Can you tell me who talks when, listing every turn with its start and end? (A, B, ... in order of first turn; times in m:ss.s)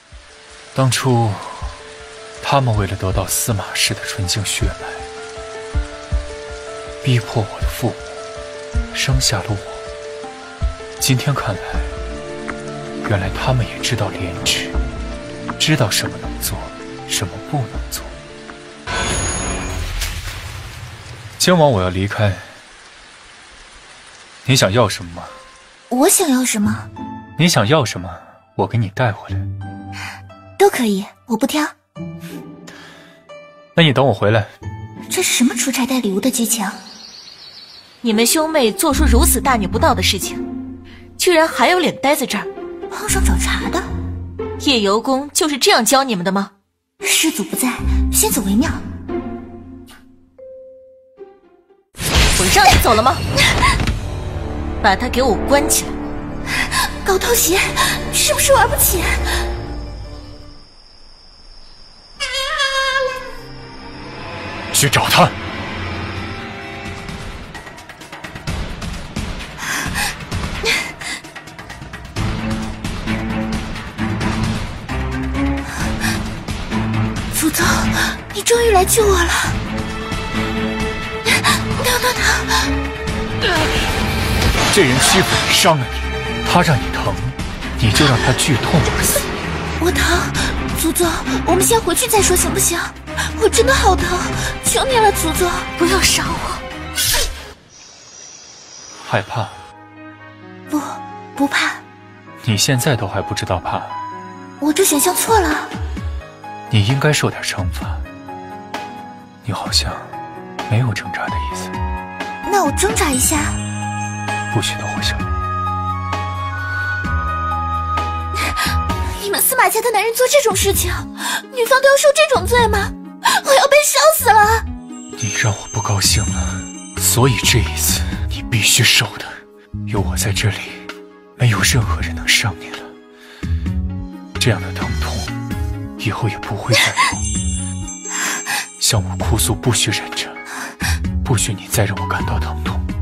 0:00.7-0:01.7 A
0:02.4-0:05.1 A
0:07.0-0:08.0 A
0:08.9-0:09.8 A
0:11.0-0:11.9 A
0:13.0-0:14.8 A
0:15.6-0:18.1 A
0:21.4-0:22.4 A
0:24.4-0:25.3 A
0:25.9-0:26.9 B
0:27.4-0:29.5 A
0:30.6-0:31.7 B
0:33.8-0:34.5 A
0:35.1-0:36.8 B
0:38.0-0:40.4 C
0:41.2-0:42.5 C
0:42.9-0:43.8 B
0:44.6-0:46.5 C
0:47.0-0:48.8 B
0:52.4-0:53.2 C
0:54.8-0:55.9 C
0:57.0-0:59.3 B
1:04.7-1:05.3 A
1:17.3-1:19.6 B
1:21.6-1:22.7 B
1:24.7-1:29.0 A
1:29.8-1:35.7 B
1:35.8-1:36.6 C
1:39.0-1:39.6 A
1:40.7-1:41.8 B
1:42.4-1:44.0 A
1:44.6-1:45.7 B
1:46.7-1:48.0 A
1:49.4-1:50.1 A
1:50.7-1:51.7 A
1:52.4-1:53.6 B
1:54.5-1:55.3 A
1:59.2-2:04.6 B
2:05.2-2:10.9 A
2:11.4-2:12.9 A
2:14.4-2:15.3 A
2:16.0-2:17.1 A
2:18.8-2:20.4 A
2:21.2-2:22.8 A